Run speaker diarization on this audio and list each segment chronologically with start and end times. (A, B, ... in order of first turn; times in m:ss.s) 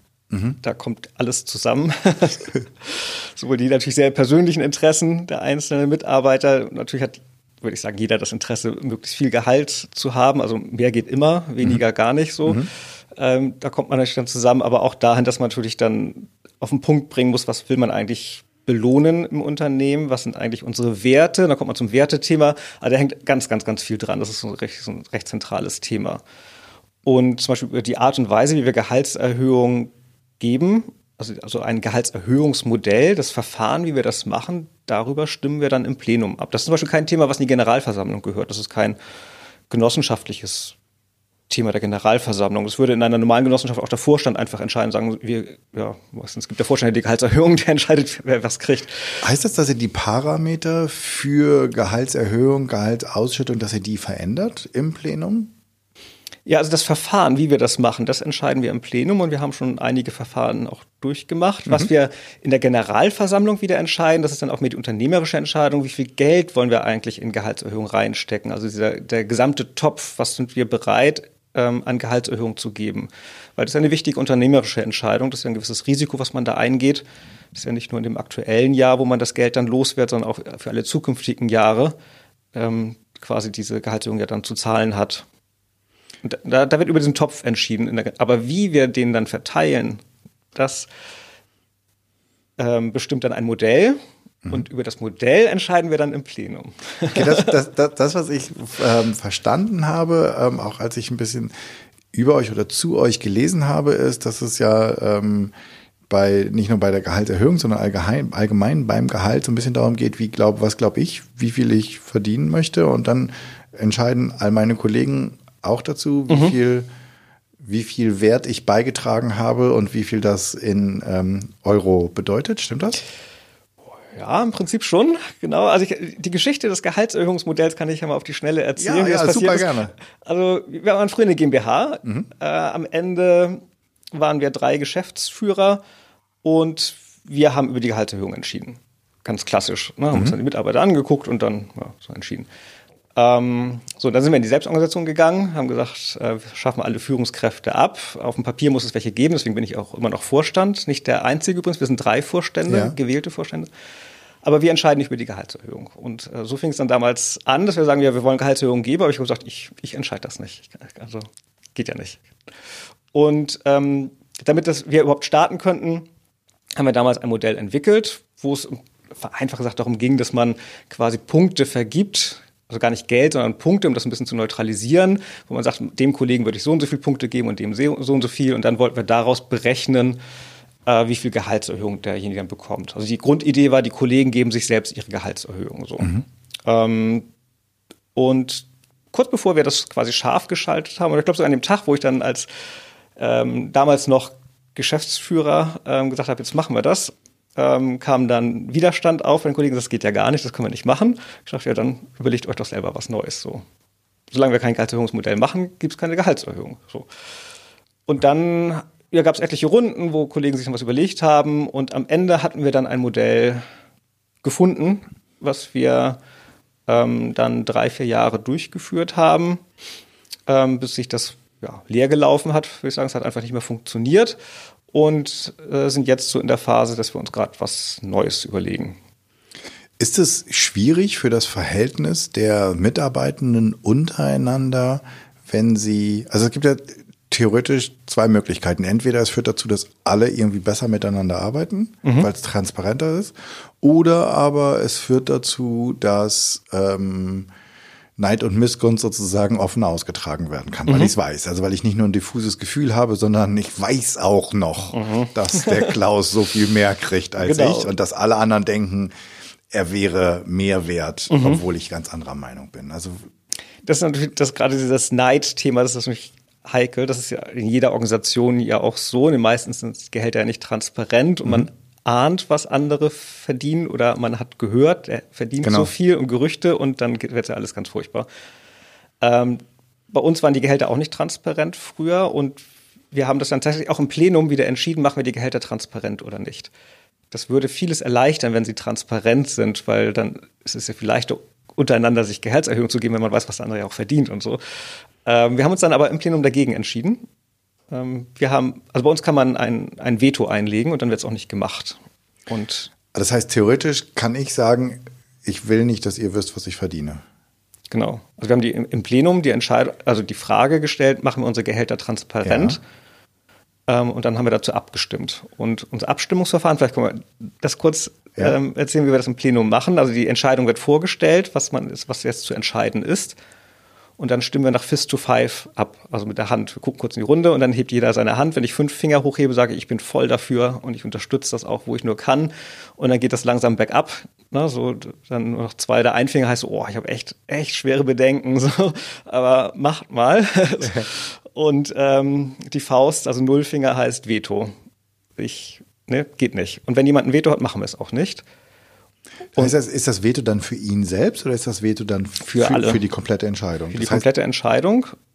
0:00.3-0:00.6 A
0:00.6-0:26.2 B
0:27.0-0:39.0 B
0:39.7-0:40.8 B
0:41.5-0:49.2 B
0:49.2-0:55.5 A
0:56.5-1:22.0 B
1:22.5-1:25.3 B
1:26.2-1:30.0 B
1:30.6-1:30.9 B
1:32.6-1:37.5 B
1:37.1-1:41.5 A
1:42.1-1:45.5 A
1:46.1-1:56.9 A
1:56.3-1:56.6 B
1:57.6-2:03.0 A
2:04.1-2:15.8 B
2:08.8-2:09.9 A
2:16.4-2:22.5 B
2:23.2-2:33.7 B
2:32.7-2:33.0 A
2:34.4-2:42.2 B
2:43.1-2:46.1 B
2:46.8-3:00.2 B
3:00.9-3:07.3 B
3:08.2-3:12.5 B
3:13.2-3:23.6 B
3:24.3-3:27.1 B
3:28.1-3:33.6 B
3:34.4-3:36.2 B
3:36.9-3:39.6 B
3:40.5-3:44.4 B
3:44.9-3:49.0 B
3:50.0-4:07.5 A
4:02.0-4:02.3 B
4:08.2-4:19.1 A
4:10.9-4:11.1 B
4:14.9-4:16.0 B
4:17.4-4:17.9 B
4:19.7-4:23.2 A
4:21.3-4:21.6 B
4:23.8-4:38.3 B
4:35.6-4:35.9 A
4:39.2-4:46.7 B
4:47.3-4:54.6 B
4:55.2-4:57.2 B
4:57.9-5:02.9 B
5:03.1-5:07.2 A
5:07.9-5:12.8 B
5:12.4-5:12.8 A
5:13.9-5:23.4 B
5:24.2-5:44.7 B
5:45.4-5:48.4 B
5:49.6-5:54.3 A
5:52.5-5:53.0 B
5:53.9-5:55.1 B